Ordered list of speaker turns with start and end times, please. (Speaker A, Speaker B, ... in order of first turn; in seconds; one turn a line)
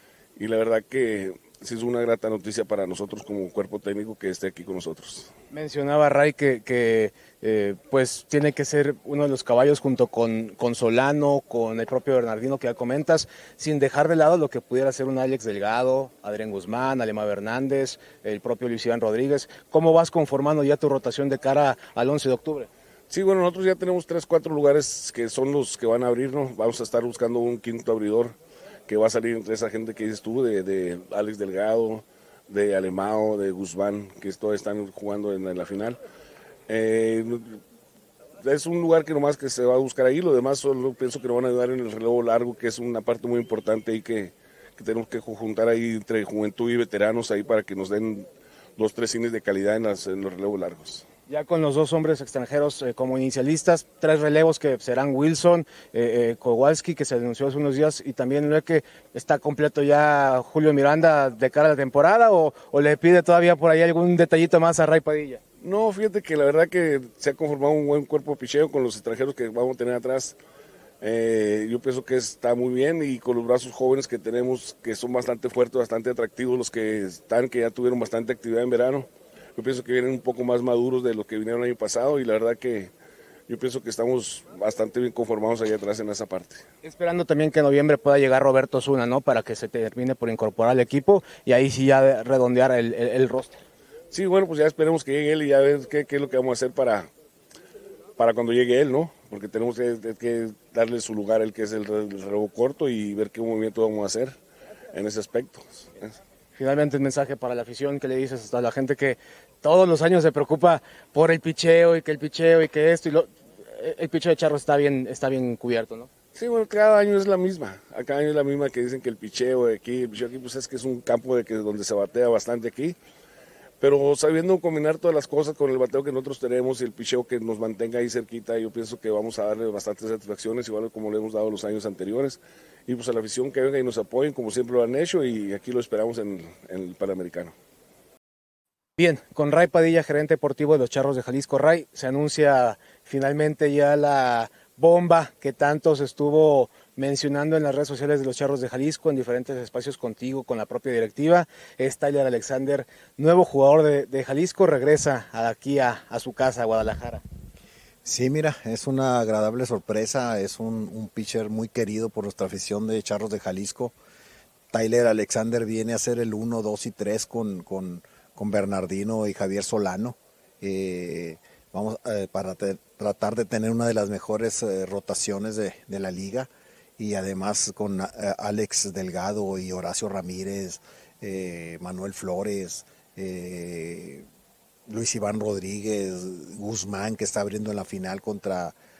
Speaker A: 0.4-5.3
Speaker B: 5.5-22.7
Speaker A: 23.1-28.4
Speaker A: 28.9-36.0
Speaker A: 36.7-37.6
Speaker A: 38.4-51.0
Speaker B: 51.3-65.4
Speaker A: 65.6-70.4
Speaker A: 71.0-82.9
Speaker A: 83.5-86.6
Speaker B: 86.8-93.6
Speaker A: 94.1-97.1
Speaker A: 98.2-104.4
Speaker A: 104.9-106.1
Speaker B: 106.5-116.1
Speaker A: 116.3-123.0
Speaker A: 123.8-137.5
Speaker B: 139.0-157.2
Speaker C: 158.0-163.9
Speaker C: 164.7-184.2
Speaker C: 184.9-188.8